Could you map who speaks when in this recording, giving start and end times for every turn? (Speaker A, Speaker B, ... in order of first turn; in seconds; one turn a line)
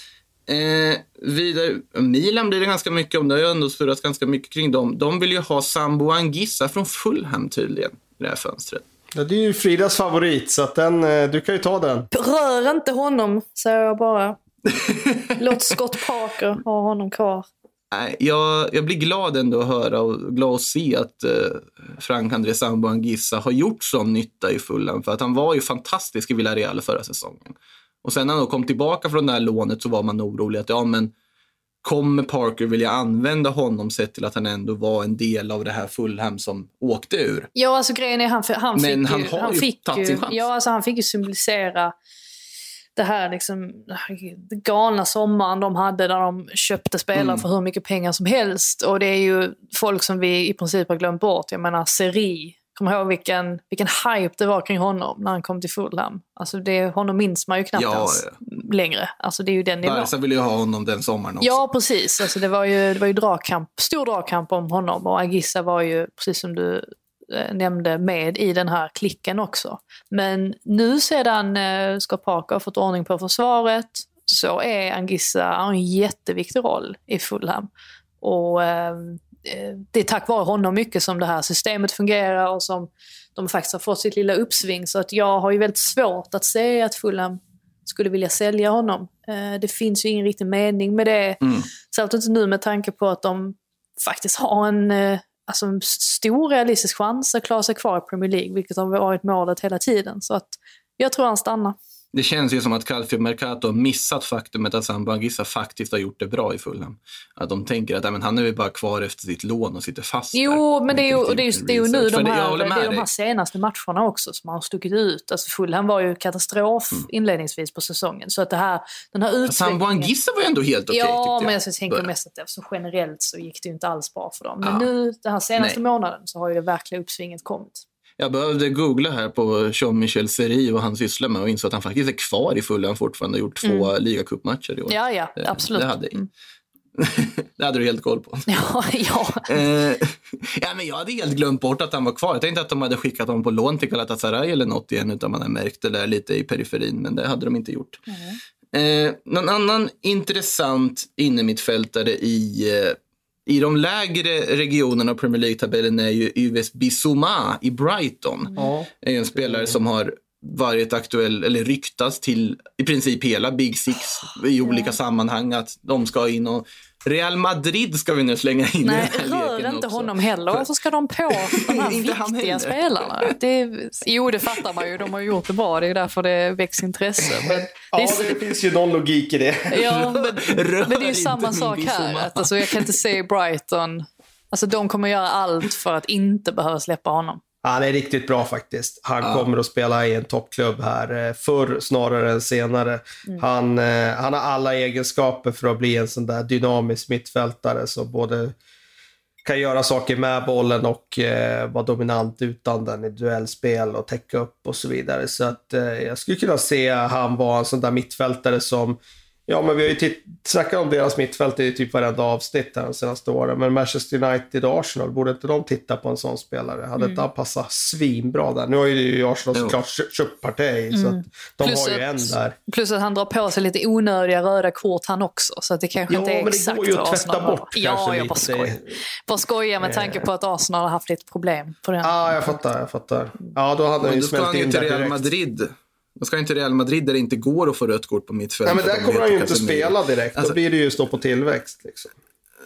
Speaker A: 0.5-8.8
Speaker B: 9.1-12.1
Speaker C: 12.1-14.4
Speaker A: 14.7-15.4
Speaker C: 15.4-17.5
Speaker A: 17.9-31.1
Speaker A: 31.8-37.5
Speaker C: 37.5-41.9
Speaker A: 38.8-40.5
Speaker C: 43.0-60.1
Speaker A: 47.1-47.5
Speaker A: 57.8-58.4
Speaker A: 59.8-61.6
Speaker C: 61.4-77.7
Speaker C: 78.2-101.8
Speaker A: 91.4-91.7
Speaker A: 102.1-113.1
Speaker C: 110.3-120.1
Speaker A: 119.5-122.1
Speaker C: 120.9-127.8
Speaker A: 124.6-124.9
Speaker A: 128.2-136.2
Speaker C: 133.6-133.9
Speaker C: 134.9-136.3
Speaker A: 137.0-138.5
Speaker C: 138.5-139.7
Speaker A: 139.5-148.0
Speaker C: 148.1-148.4
Speaker A: 148.7-158.5
Speaker B: 158.6-159.8
Speaker A: 159.0-170.7
Speaker C: 164.7-164.9
Speaker C: 168.8-178.3
Speaker A: 171.3-173.3
Speaker B: 177.5-179.8
Speaker C: 179.7-187.4
Speaker A: 179.9-182.9
Speaker B: 187.6-198.6
Speaker B: 199.4-222.6
Speaker C: 217.0-217.2
Speaker C: 220.9-232.6
Speaker B: 226.1-228.9
Speaker B: 229.8-230.3
Speaker B: 232.0-235.2
Speaker A: 234.0-240.6
Speaker B: 238.7-242.1